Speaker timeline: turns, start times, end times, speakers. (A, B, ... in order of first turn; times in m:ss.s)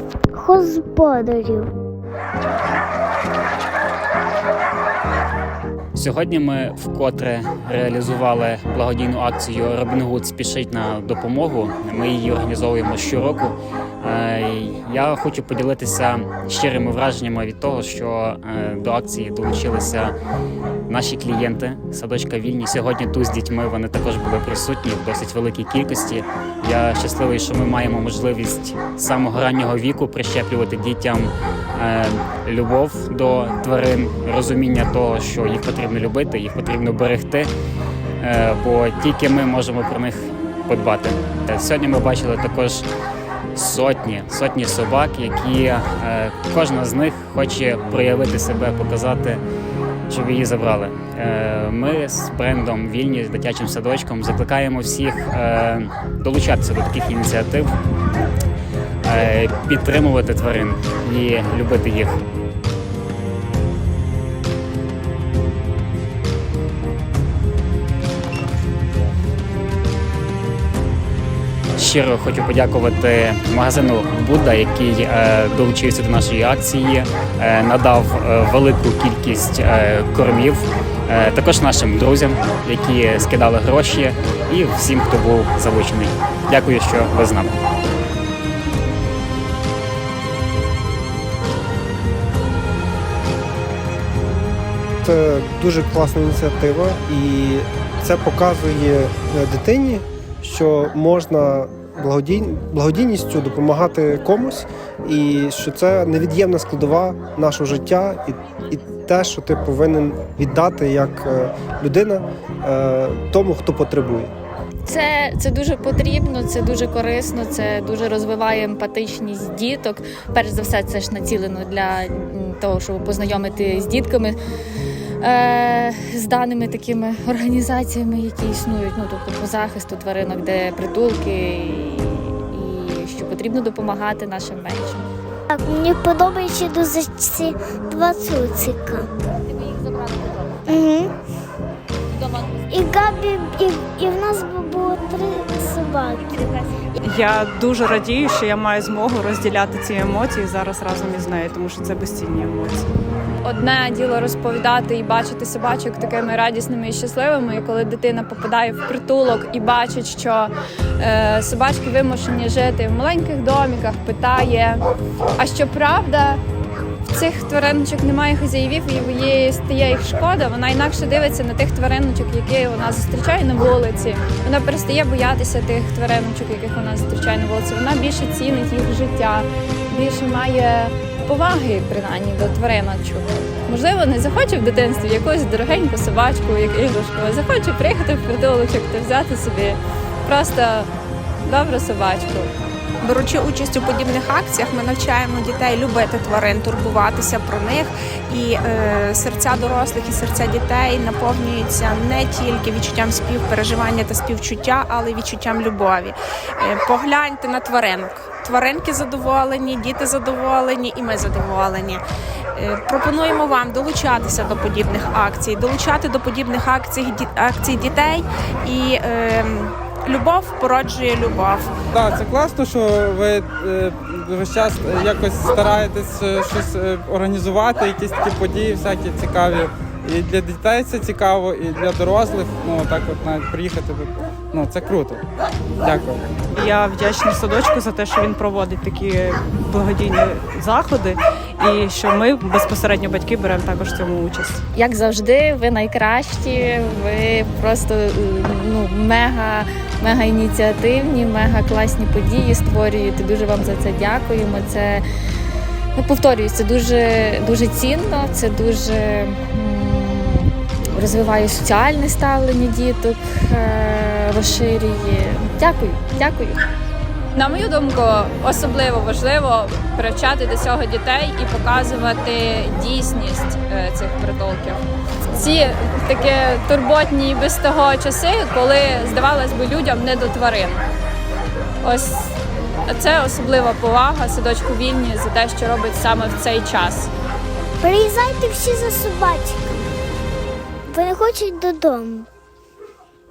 0:00.3-0:01.7 A
0:06.0-0:20.2 B
0:20.9-0:37.5 B
0:38.2-0:42.9 B
0:43.6-0:49.4 B
0:50.1-0:57.7 B
0:59.0-1:02.2 B
1:11.8-1:27.5 B
1:35.0-1:54.3 C
1:54.9-2:04.4 D
2:05.2-2:15.1 D
2:15.5-2:19.1 A
2:20.7-2:21.1 A
2:22.7-2:26.6 A
2:27.0-2:32.9 E
2:33.4-2:44.8 F
2:45.4-2:46.4 F
2:47.1-3:10.9 F
3:11.4-3:12.5 F
3:13.0-3:32.0 G
3:32.6-3:41.7 G
3:41.9-3:55.2 H
3:55.8-3:56.2 H
3:56.6-4:04.6 E
4:04.8-4:15.0 D
4:16.0-4:26.6 D
4:27.3-4:40.8 F
4:41.8-4:47.1 F
4:47.8-4:49.8 A
4:50.9-4:52.3 A